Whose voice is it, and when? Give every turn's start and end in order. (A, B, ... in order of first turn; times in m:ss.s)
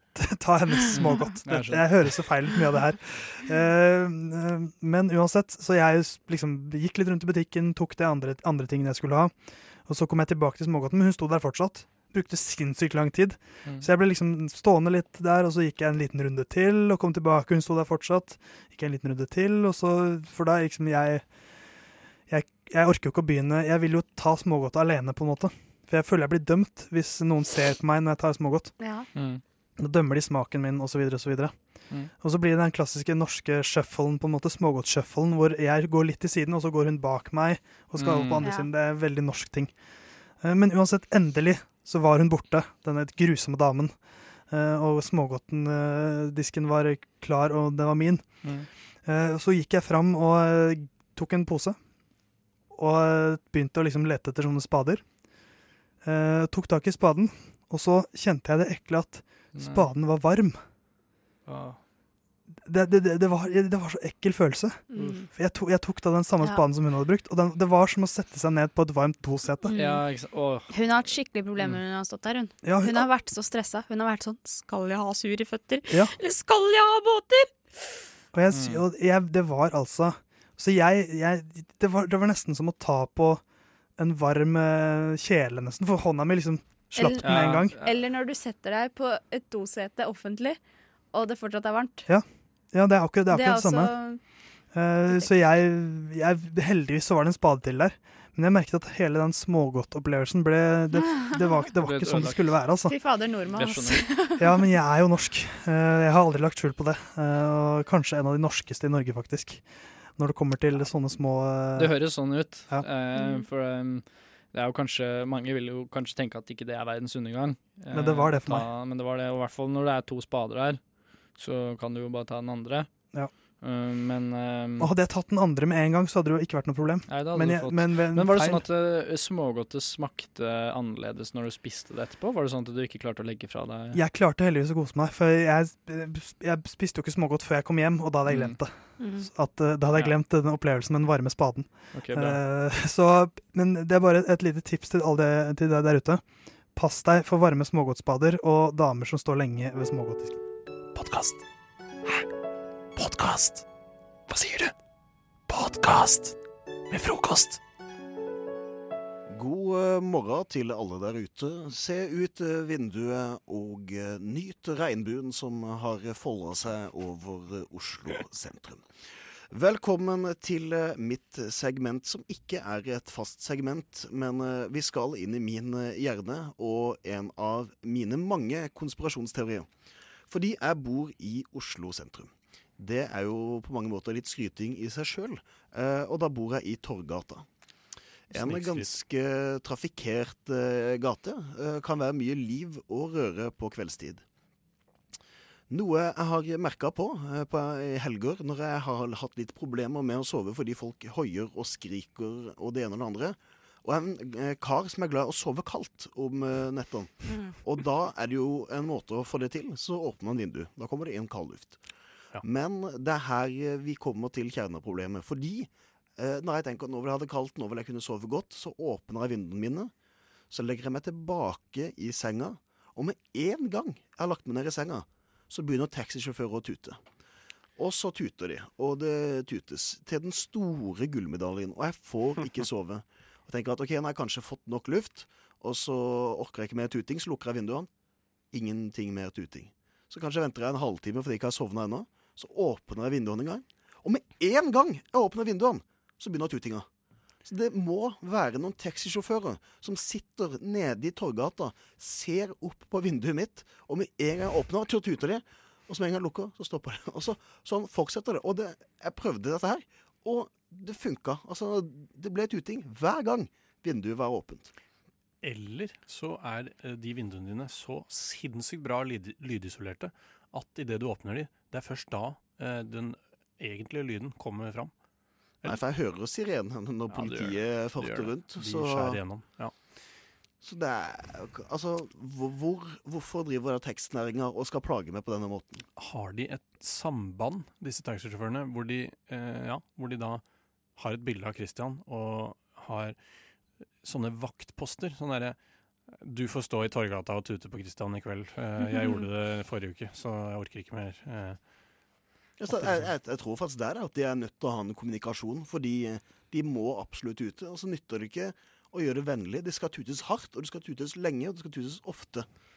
0:00.1-0:09.3 A
0:00.9-0:01.9 B
0:09.8-0:21.2 A
0:22.3-0:28.7 A
0:28.8-0:29.1 C
0:29.1-0:29.4 B
0:29.8-0:31.5 A
0:32.2-0:39.7 A
0:38.0-0:38.5 B
0:38.4-0:38.7 C
0:40.4-0:44.0 A
0:44.5-0:48.3 A
0:49.0-0:51.8 A
0:52.7-0:55.0 A
0:56.0-1:00.6 A
0:59.6-0:59.8 B
1:01.4-1:01.8 B
1:02.6-1:09.7 A
1:04.9-1:05.3 C
1:09.6-1:10.0 C
1:09.7-1:10.7 B
1:10.7-1:17.5 C
1:12.6-1:13.1 A
1:15.9-1:16.1 A
1:18.3-1:23.4 A
1:18.5-1:18.8 B
1:24.0-1:27.8 A
1:27.0-1:30.6 C
1:27.2-1:27.9 B
1:31.1-1:32.0 C
1:32.1-1:33.9 A
1:33.3-1:34.2 C
1:34.7-1:42.9 A
1:41.8-1:42.5 B
1:42.9-1:44.5 C
1:43.5-1:44.0 B
1:44.4-1:49.6 A
1:50.2-1:52.0 A
1:51.8-2:00.8 B
1:53.2-1:53.4 C
1:57.9-1:58.7 A
2:01.4-2:02.9 B
2:03.6-2:04.9 B
2:04.8-2:08.6 A
2:07.1-2:14.0 B
2:13.9-2:26.2 A
2:18.3-2:18.6 B
2:19.0-2:19.3 C
2:21.9-2:22.4 B
2:26.7-2:30.4 A
2:30.9-2:31.4 D
2:33.0-2:33.6 D
2:34.3-2:34.7 D
2:35.5-2:36.4 D
2:36.9-2:37.6 D
2:39.3-2:48.8 E
2:49.5-2:59.7 E
3:00.3-3:07.4 E
3:08.3-3:14.2 E
3:08.3-3:08.9 F
3:15.7-3:31.8 E
3:32.4-3:39.9 E
3:40.5-3:47.0 E
3:47.8-3:57.9 E
3:58.5-4:06.8 E
4:07.4-4:24.7 E
4:25.4-4:34.9 F
4:35.6-4:39.2 E
4:37.1-4:39.7 F
4:40.6-4:45.8 E
4:46.0-4:50.4 F
4:51.0-4:53.2 F
4:54.0-4:55.6 F
4:56.2-5:01.6 F
4:58.9-4:59.1 C
5:02.6-5:12.4 E
5:02.7-5:03.0 F